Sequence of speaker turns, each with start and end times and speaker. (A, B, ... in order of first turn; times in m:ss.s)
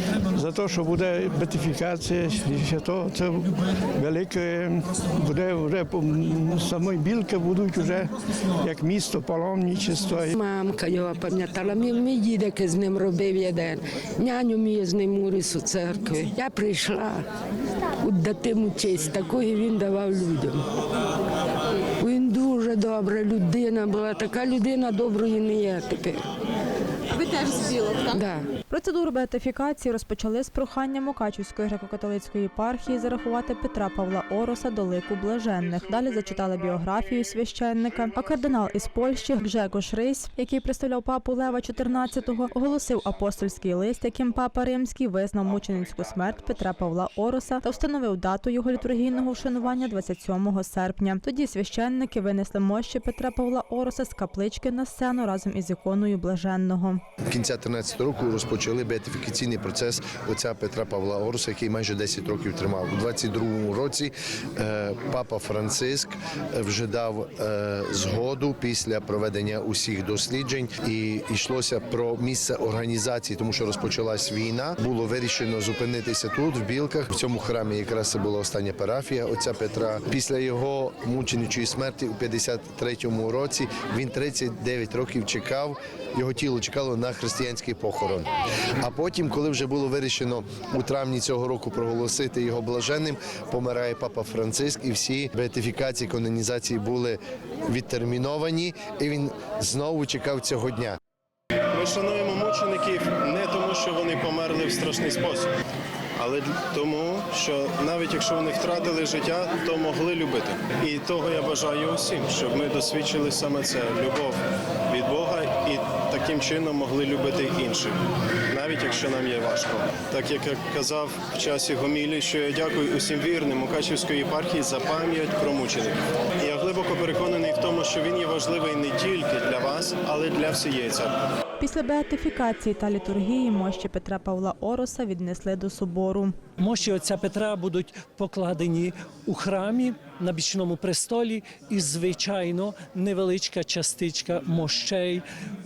0:00.3-0:10.3 A
0:10.3-0:17.2 B
0:18.0-0:20.6 B
0:22.0-0:26.2 B
0:27.1-0:28.4 B
0:28.7-0:57.0 C
0:57.3-1:41.0 D
1:41.7-1:45.5 E
1:46.2-2:11.2 E
2:11.6-2:16.4 C
2:16.6-2:25.2 F